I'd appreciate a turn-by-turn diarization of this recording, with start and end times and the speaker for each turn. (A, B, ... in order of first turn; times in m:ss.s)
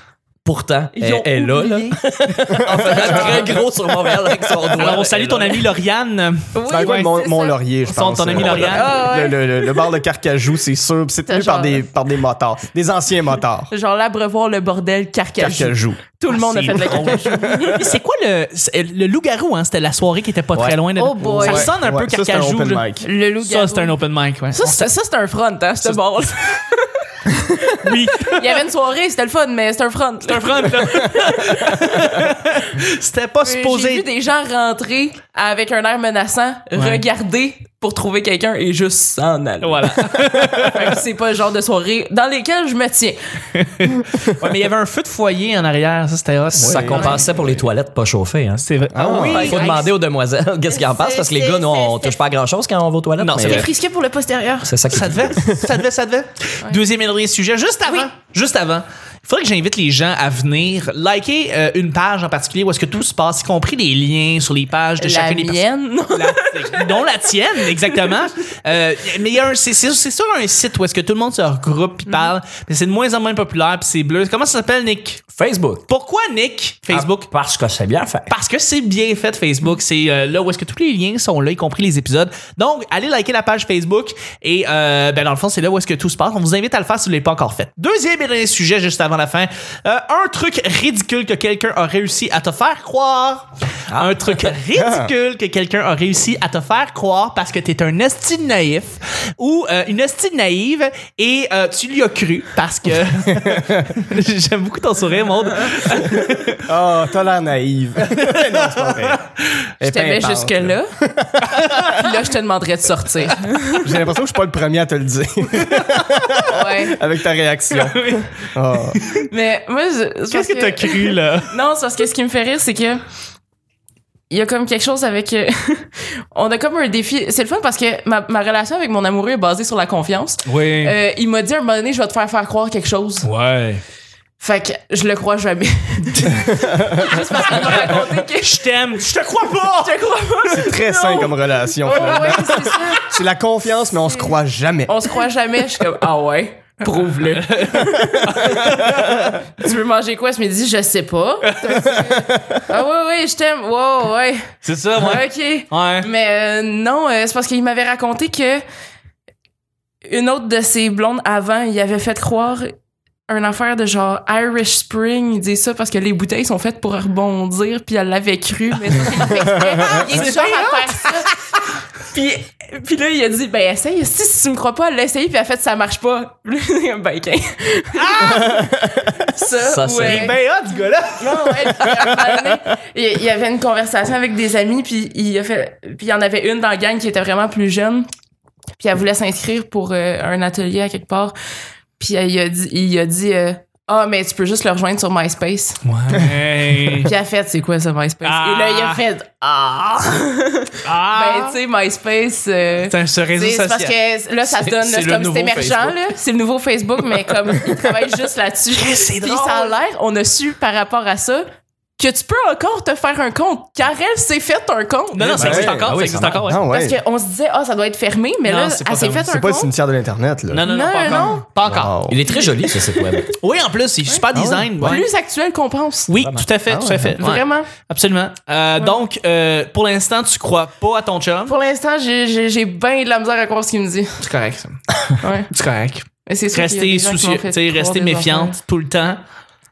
0:00.4-0:05.7 A
0:00.9-0:02.0 B
0:02.5-0:03.4 C
0:02.7-0:03.5 B
0:04.8-0:07.1 D
0:06.6-0:07.6 B
0:06.7-0:13.7 C
0:07.9-0:08.9 D
0:08.5-0:10.0 B
0:11.3-0:11.9 B
0:13.7-0:17.9 B
0:15.4-0:16.0 C
0:16.3-0:22.9 D
0:21.0-0:21.7 B
0:21.2-0:23.1 C
0:23.0-0:24.0 B
0:23.4-0:24.9 D
0:24.5-0:32.0 B
0:27.8-0:28.6 D
0:30.2-0:34.1 D
0:33.4-0:43.2 B
0:36.8-0:37.0 D
0:39.6-0:41.0 D
0:43.6-0:47.3 D
0:46.5-0:53.7 A
0:46.6-0:47.2 C
0:46.9-0:47.2 B
0:48.6-0:49.9 D
0:48.9-0:49.5 C
0:49.3-0:49.9 B
0:50.7-0:52.2 B
0:53.2-0:53.7 D
0:53.4-0:54.7 B
0:54.6-0:55.7 A
0:54.9-1:15.2 D
1:05.0-1:07.1 B
1:07.8-1:08.2 B
1:12.1-1:12.3 B
1:15.4-1:15.9 A
1:15.9-1:17.3 D
1:16.9-1:18.3 A
1:18.3-1:46.6 D
1:33.9-1:34.4 A
1:34.8-1:35.1 C
1:43.2-1:43.9 C
1:46.6-1:49.2 C
1:48.1-1:49.2 D
1:49.8-1:52.0 C
1:49.8-1:50.9 B
1:51.5-1:52.1 D
1:51.9-1:53.9 B
1:53.8-1:59.0 C
1:55.6-1:56.4 D
1:56.5-1:57.0 B
1:57.7-1:58.3 D
1:58.9-1:59.3 D
1:59.3-2:03.0 B
2:00.3-2:01.5 D
2:04.3-2:13.3 B
2:10.4-2:11.0 D
2:13.2-2:13.8 D
2:14.4-2:18.7 B
2:16.5-2:17.5 C
2:17.4-2:20.0 D
2:19.6-2:23.1 B
2:20.5-2:24.9 C
2:21.9-2:22.6 D
2:23.9-2:24.4 B
2:24.9-2:38.6 B
2:27.2-2:29.0 D
2:28.4-2:29.3 C
2:31.4-2:32.0 D
2:31.8-2:32.6 C
2:34.6-2:36.1 D
2:40.0-2:42.7 B
2:43.3-2:51.4 B
2:49.2-2:50.0 C
2:49.9-2:51.4 D
2:52.1-3:00.4 B
2:58.0-2:58.6 D
2:58.2-2:59.2 C
2:59.6-3:00.4 A
3:00.0-3:02.2 D
3:01.2-3:08.1 B
3:08.8-3:11.3 B
3:12.0-3:15.8 B
3:15.8-3:17.1 D
3:17.0-3:31.4 B
3:18.2-3:19.0 D
3:20.8-3:21.6 D
3:22.8-3:23.9 D
3:24.5-3:26.0 A
3:28.8-3:29.8 D
3:32.0-3:35.6 B
3:35.1-3:36.6 D
3:35.4-3:36.5 A
3:35.4-3:35.9 C
3:36.4-3:37.0 C
3:36.7-3:39.7 B
3:38.4-3:39.3 D
3:39.2-3:40.6 C
3:40.5-3:41.9 D
3:40.6-3:41.5 B
3:41.1-3:43.3 A
3:41.7-3:42.2 C
3:43.4-3:45.0 D
3:44.3-3:45.0 C
3:44.8-3:46.1 B
3:46.1-3:51.5 D
3:46.2-3:47.2 A
3:46.7-3:47.2 C
3:47.2-3:47.7 B
3:51.5-3:54.2 B
3:54.2-3:54.8 D
3:55.2-3:55.5 B
3:55.5-3:59.2 D
3:56.3-3:58.6 B